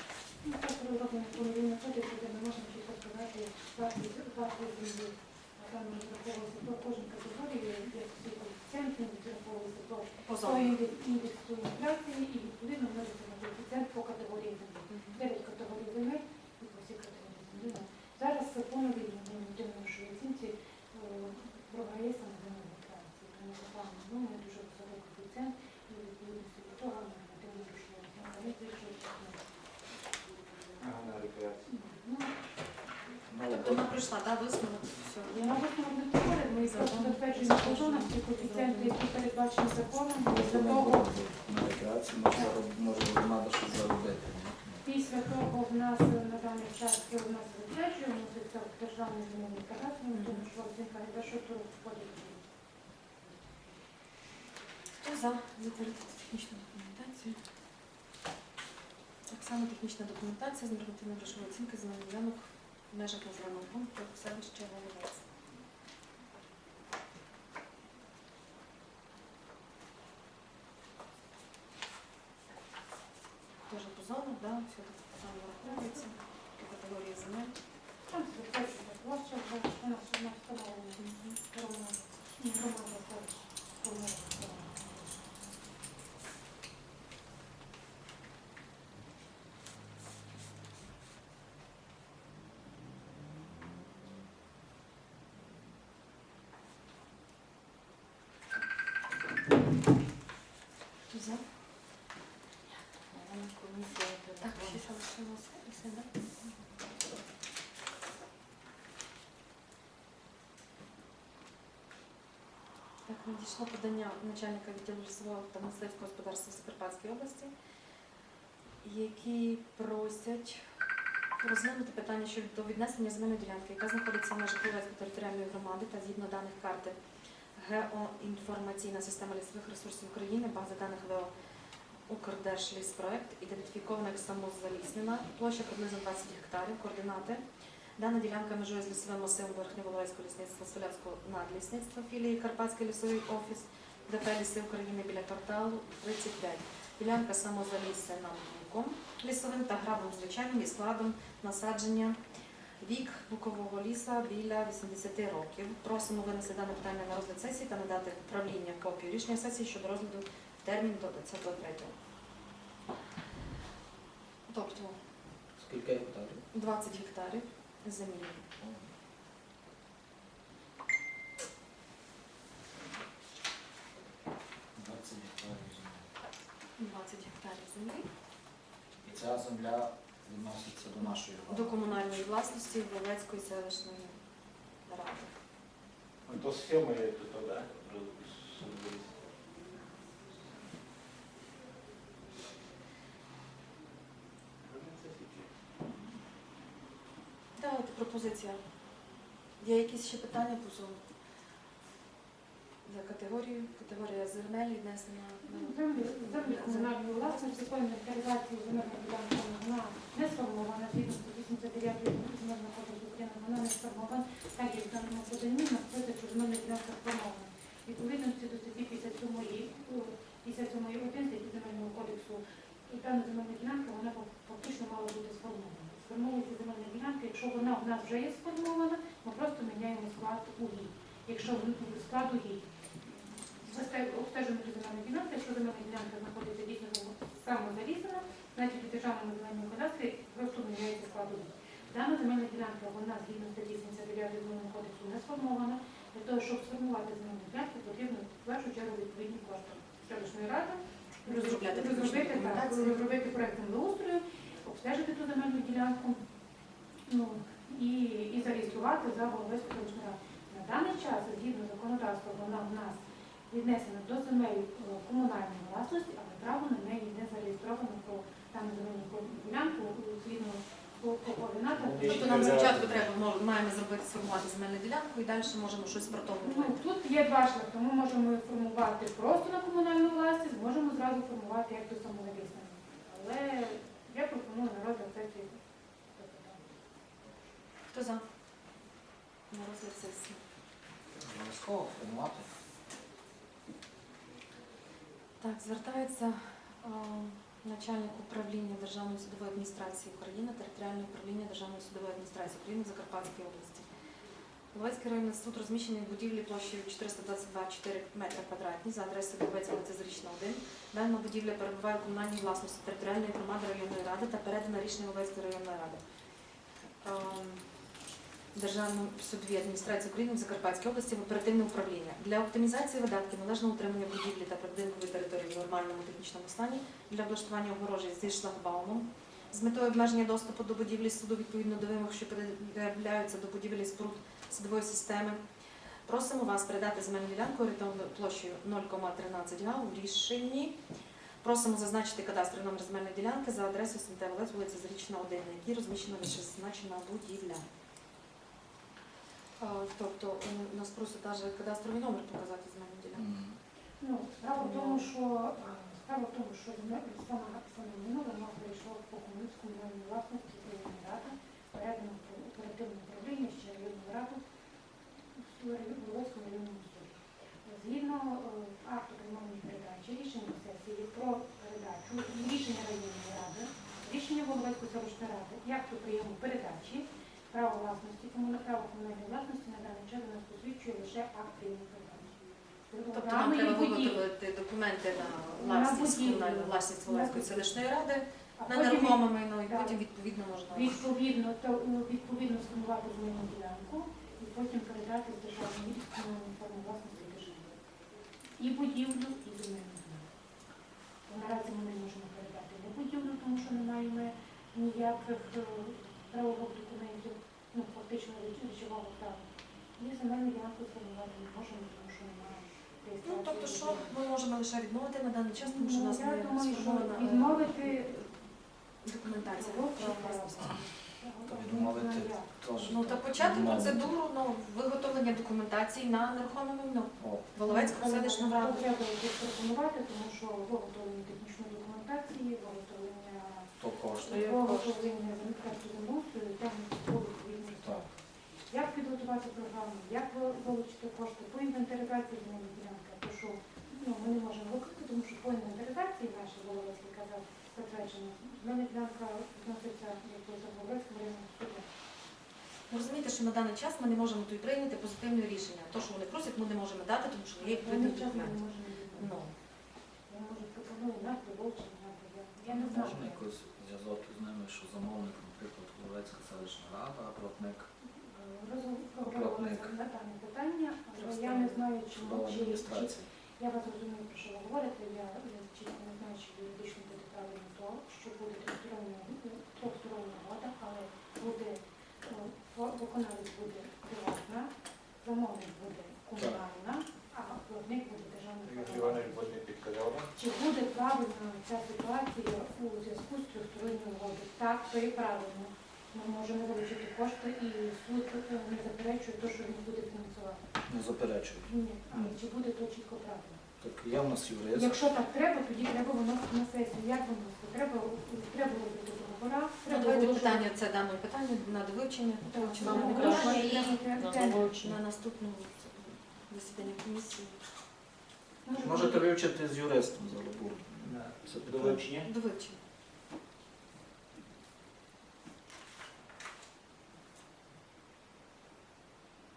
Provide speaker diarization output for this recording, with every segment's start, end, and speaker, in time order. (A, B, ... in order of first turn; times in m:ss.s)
0:00.4-0:29.5 A
0:10.2-0:10.8 B
0:14.9-0:15.2 B
0:30.8-0:31.8 C
0:31.7-0:32.3 A
0:33.3-0:33.9 D
0:33.4-0:35.5 B
0:35.3-0:41.1 A
0:36.6-0:39.0 B
0:40.2-0:44.8 D
0:44.8-0:52.4 A
0:50.1-0:50.4 B
0:55.0-0:57.4 B
0:59.3-1:05.2 B
1:13.7-1:17.5 B
1:15.6-1:16.1 A
1:18.1-1:24.9 A
1:21.0-1:21.4 B
1:41.1-1:41.4 B
1:43.1-1:44.8 E
1:44.4-1:46.1 B
1:53.0-1:57.5 B
1:58.8-2:00.6 B
2:01.4-2:07.0 B
2:07.6-2:11.3 B
2:12.1-2:17.4 B
2:18.0-2:32.2 B
2:32.8-2:41.9 B
2:44.5-2:45.0 B
2:45.6-2:46.4 D
2:46.5-2:48.4 B
2:54.8-2:56.0 D
2:56.8-2:58.1 B
2:59.0-3:01.8 D
3:01.5-3:04.2 B
3:04.8-3:05.3 B
3:06.2-3:09.1 C
3:14.6-3:15.5 C
3:17.6-3:18.6 B
3:19.6-3:21.0 B
3:22.8-3:27.6 B
3:25.4-3:52.6 A
3:53.6-4:16.2 A
4:11.2-4:13.0 B
4:17.1-4:32.8 A
4:31.7-4:33.1 C
4:32.1-4:36.8 B
4:36.4-4:45.6 A
4:46.1-4:46.6 A
4:47.9-4:48.2 B
4:49.5-4:50.4 B
4:51.2-4:52.5 D
4:55.4-5:03.9 B
5:04.7-5:16.0 B
5:17.0-5:17.6 B
5:18.5-5:35.4 B
5:36.0-5:40.8 B
5:41.4-5:47.6 B
5:49.6-5:53.3 B
5:53.2-5:53.6 D
5:54.0-6:04.4 A
5:54.5-5:55.1 B
6:05.2-6:22.4 A
6:22.9-6:24.2 A
6:23.1-6:31.0 B
6:25.6-6:27.8 A
6:28.6-6:30.0 A
6:30.7-6:37.8 A
6:38.6-6:40.3 A
6:41.3-6:49.4 A
6:50.0-6:54.1 A
6:53.2-6:58.4 B
6:55.6-6:58.2 A
6:59.0-7:00.8 B
6:59.4-7:03.0 A
7:01.4-7:04.1 D
7:02.8-7:08.9 B
7:07.2-7:07.5 D
7:07.6-7:13.7 A
7:13.8-7:14.5 D
7:14.3-7:14.9 E
7:14.3-7:31.9 A
7:32.9-7:38.6 B
7:37.6-7:39.4 A
7:39.1-7:39.5 B
7:40.3-7:43.4 A
7:42.7-7:47.9 D
7:48.1-8:04.7 A
7:49.2-7:49.9 D
7:51.2-7:53.3 D
8:05.2-8:09.4 A
8:08.6-8:10.3 C
8:10.3-8:20.6 A
8:20.9-8:22.3 D
8:21.7-8:23.6 A
8:23.8-8:25.0 D
8:24.7-8:30.7 A
8:29.9-8:37.6 B
8:32.5-8:34.7 A
8:32.8-8:35.0 E
8:38.6-8:39.3 A
8:38.8-8:42.0 D
8:41.0-8:42.3 C
8:42.2-8:42.8 B